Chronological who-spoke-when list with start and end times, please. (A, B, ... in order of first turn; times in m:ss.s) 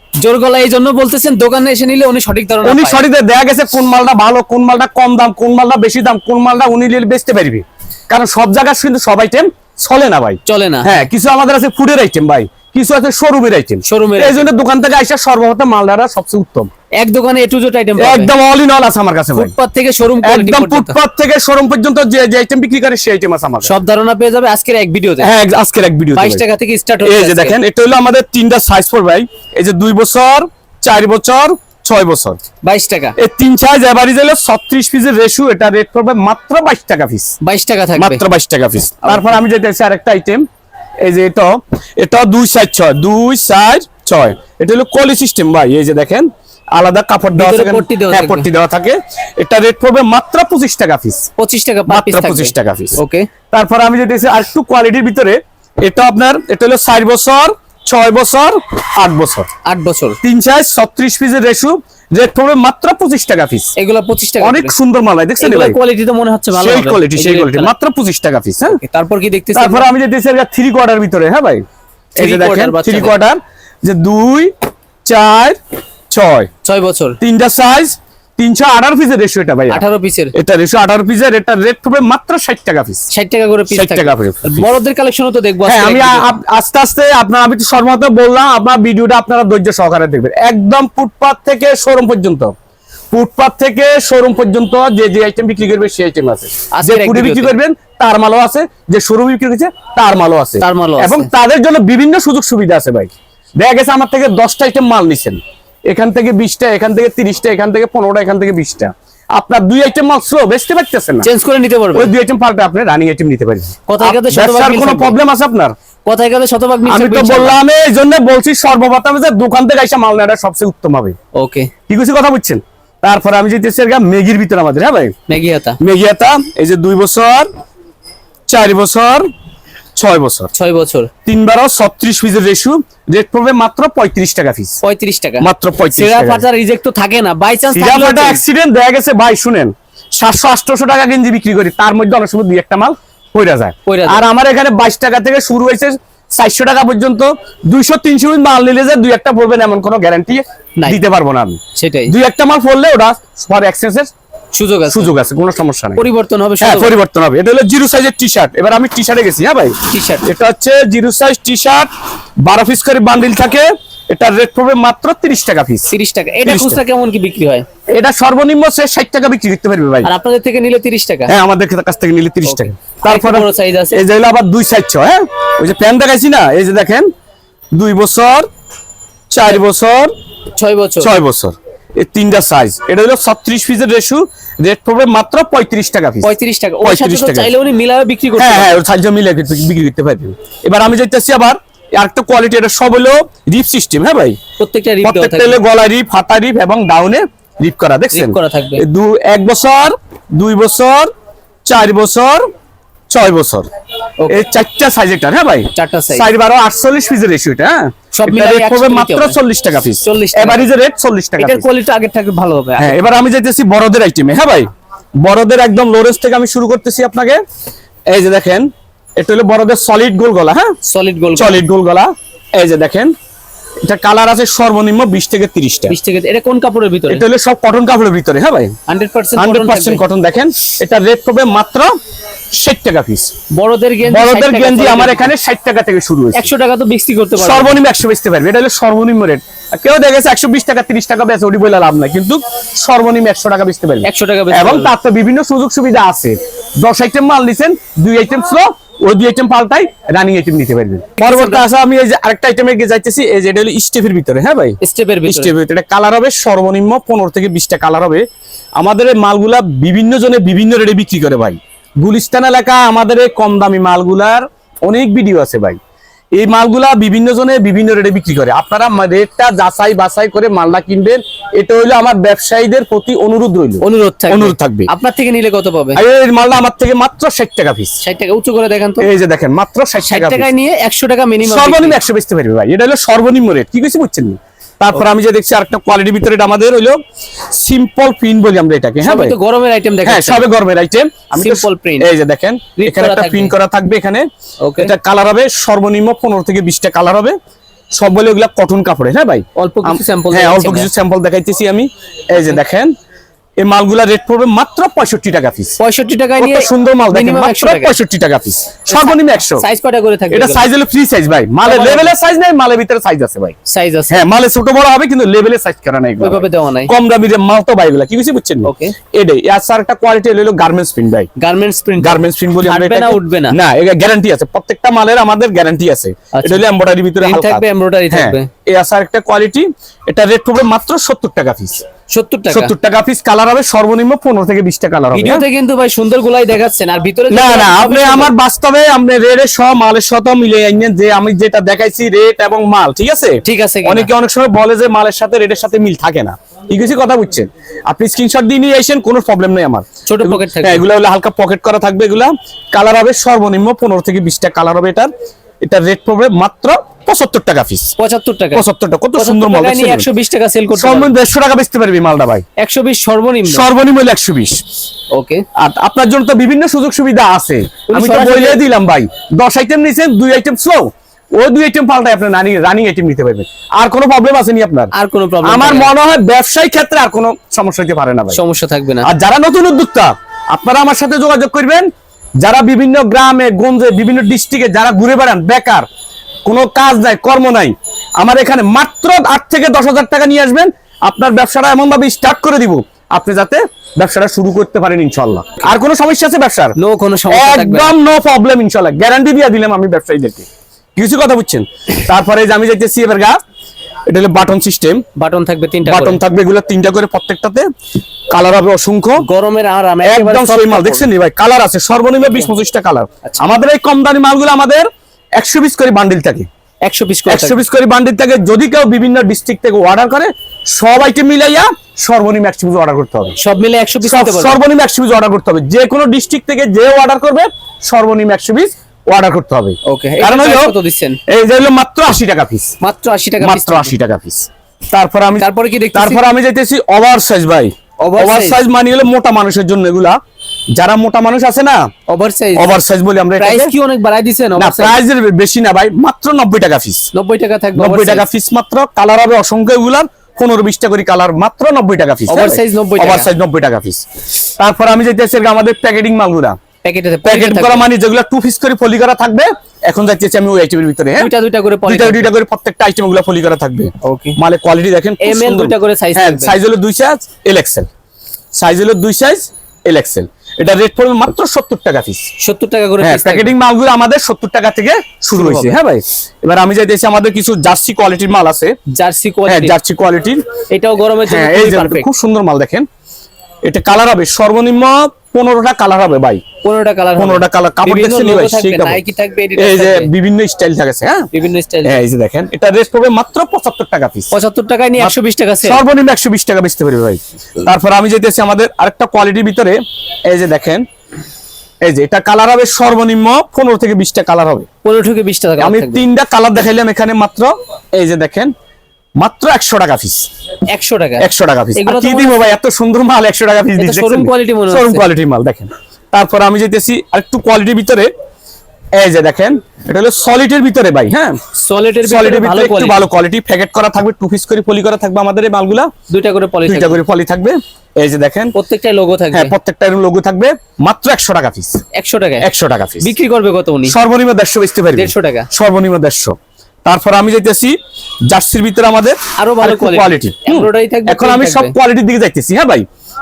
0:00.2-0:03.0 A
0:02.6-0:16.7 B
0:10.4-0:10.9 A
0:13.8-0:14.5 A
0:17.0-0:18.3 A
0:18.0-0:19.5 B
0:19.3-0:21.0 A
0:20.2-0:23.7 B
0:23.6-0:25.3 A
0:25.2-0:26.4 B
0:26.1-0:27.6 A
0:27.0-0:32.4 B
0:32.6-0:33.2 A
0:33.2-0:37.3 B
0:37.4-0:38.2 A
0:38.0-0:40.4 B
0:39.0-0:39.4 A
0:41.0-0:51.3 B
0:47.4-0:48.5 A
0:51.4-0:53.3 A
0:51.9-0:53.0 B
0:53.5-0:59.5 B
0:59.6-1:00.2 A
1:00.2-1:03.7 B
1:03.8-1:04.7 A
1:04.4-1:05.8 B
1:05.4-1:07.7 A
1:06.5-1:08.8 B
1:08.7-1:09.9 A
1:09.5-1:11.6 B
1:12.2-1:13.2 A
1:12.2-1:14.5 B
1:15.0-1:15.6 B
1:16.1-1:16.5 B
1:16.6-1:17.2 A
1:17.2-1:23.1 B
1:19.7-1:20.3 A
1:23.1-1:26.2 A
1:23.7-1:24.6 B
1:25.6-1:32.5 B
1:33.1-1:51.3 B
1:36.7-1:37.6 A
1:40.6-1:41.3 A
1:51.2-1:52.1 A
1:51.9-1:55.8 B
1:53.9-1:55.2 A
1:56.0-1:57.6 A
1:56.9-2:01.2 B
2:01.3-2:01.7 A
2:01.9-2:05.1 B
2:05.3-2:05.8 A
2:05.8-2:07.5 B
2:08.5-2:09.3 B
2:10.0-2:10.5 B
2:10.5-2:11.1 A
2:11.2-2:14.8 B
2:14.8-2:18.4 A
2:15.4-2:16.4 B
2:17.7-2:34.1 B
2:23.8-2:24.2 A
2:31.7-2:32.1 A
2:34.5-2:35.1 A
2:34.9-2:36.0 B
2:36.0-2:36.9 A
2:36.6-2:41.9 B
2:39.9-2:40.3 A
2:42.4-2:45.9 B
2:45.9-2:47.6 A
2:46.4-2:46.8 B
2:47.9-2:50.1 B
2:50.0-2:51.3 A
2:51.3-2:57.1 B
2:52.4-2:54.0 A
2:57.7-2:58.5 B
2:59.3-3:00.1 B
3:00.6-3:01.1 A
3:01.0-3:07.5 B
3:06.2-3:08.8 A
3:08.4-3:14.4 B
3:14.6-3:15.6 A
3:15.0-3:21.1 B
3:18.1-3:18.8 A
3:21.6-3:22.4 B
3:23.1-3:23.7 B
3:24.2-3:24.5 A
3:24.3-3:31.7 B
3:25.7-3:26.3 A
3:28.1-3:29.4 A
3:30.0-3:30.7 A
3:31.4-3:33.0 A
3:32.8-3:34.7 B
3:35.2-3:37.4 B
3:38.1-3:40.8 B
3:40.8-3:41.6 A
3:41.4-3:43.1 B
3:43.8-3:45.9 B
3:45.9-3:47.2 A
3:47.1-3:48.7 B
3:48.9-3:50.0 A
3:49.4-3:51.9 B
3:52.5-3:53.3 B
3:53.5-3:55.3 A
3:54.0-3:56.5 B
3:56.3-3:57.8 A
3:57.4-4:18.2 B
4:04.0-4:04.9 A
4:11.2-4:11.6 A
4:14.8-4:15.5 A
4:18.8-4:25.8 B
4:26.3-4:34.9 B
4:33.8-4:36.0 A
4:35.9-4:38.0 B
4:38.0-4:39.1 A
4:39.0-4:40.5 B
4:40.1-4:42.0 A
4:41.4-4:47.0 B
4:47.5-4:49.3 B
4:49.0-4:50.5 A
4:50.0-4:54.2 B
4:51.3-4:52.1 A
4:52.8-4:53.5 A
4:54.6-4:54.9 A
4:54.8-4:57.4 B
4:57.9-5:02.9 B
4:59.5-5:00.9 A
5:03.6-5:05.8 B
5:05.8-5:08.0 A
5:06.4-5:09.6 B
5:08.9-5:10.6 A
5:10.3-5:13.6 B
5:11.6-5:12.1 A
5:13.6-5:14.2 A
5:14.1-5:21.3 B
5:16.2-5:16.9 A
5:18.6-5:18.9 A
5:21.4-5:23.6 A
5:22.0-5:31.8 B
5:26.3-5:26.6 A
5:27.2-5:28.5 A
5:32.1-5:32.7 A
5:32.5-5:35.4 B
5:35.1-5:38.3 A
5:37.3-5:55.1 B
5:43.4-5:44.1 A
5:50.0-5:50.8 A
5:55.6-5:57.9 B
5:58.0-5:58.6 A
5:58.5-6:00.1 B
5:59.2-6:01.1 A
6:00.7-6:02.4 B
6:02.6-6:03.7 A
6:03.4-6:04.6 B
6:05.1-6:05.4 A
6:05.6-6:14.9 B
6:07.9-6:08.6 A
6:14.9-6:15.9 A
6:15.4-6:18.4 B
6:18.3-6:19.1 A
6:19.0-6:21.9 B
6:22.4-6:25.8 B
6:26.4-6:36.8 B
6:36.8-6:37.9 A
6:37.3-6:43.4 B
6:44.1-6:45.0 B
6:45.1-6:46.2 A
6:45.8-6:47.6 B
6:48.3-6:49.2 B
6:49.2-6:51.1 A
6:50.0-6:56.5 B
6:56.8-6:57.6 A
6:57.3-7:03.4 B
7:03.4-7:04.6 A
7:04.0-7:10.7 B
7:09.8-7:11.2 A
7:11.3-7:12.7 B
7:12.8-7:13.9 A
7:13.4-7:20.2 B
7:15.4-7:16.2 A
7:18.0-7:18.6 A
7:20.7-7:21.9 B
7:22.1-7:22.8 A
7:22.6-7:23.7 B
7:23.4-7:25.0 A
7:24.6-7:27.1 B
7:27.1-7:28.2 A
7:27.8-7:34.0 B
7:32.3-7:33.3 A
7:34.6-7:36.6 B
7:36.8-7:37.9 A
7:37.2-7:41.3 B
7:41.2-7:42.3 A
7:41.9-7:47.9 B
7:44.0-7:44.4 A
7:45.2-7:46.6 A
7:48.5-7:52.3 B
7:52.4-7:53.6 A
7:53.0-7:58.8 B
7:55.3-7:55.8 A
7:58.9-7:59.8 A
7:59.5-8:00.4 B
8:00.7-8:02.1 A
8:01.2-8:02.9 B
8:03.6-8:06.4 B
8:06.6-8:10.1 A
8:07.2-8:09.0 B
8:09.6-8:11.3 B
8:11.3-8:12.0 A
8:11.8-8:14.3 B
8:14.3-8:15.8 A
8:15.0-8:20.8 B
8:21.8-8:24.7 B
8:24.8-8:26.0 A
8:25.6-8:28.5 B
8:29.2-8:30.3 B
8:30.7-8:32.5 A
8:31.2-8:38.1 B
8:33.8-8:35.0 A
8:39.0-8:41.4 B
8:41.6-8:43.1 A
8:42.0-8:45.9 B
8:46.1-8:47.0 A
8:46.6-8:48.5 B
8:48.5-8:49.5 A
8:49.3-8:51.8 B
8:51.9-8:52.5 A
8:52.4-8:53.1 B
8:53.0-8:54.0 A
8:53.9-8:57.8 B
8:54.9-8:55.5 A
8:58.3-9:02.8 B
8:59.4-9:01.7 A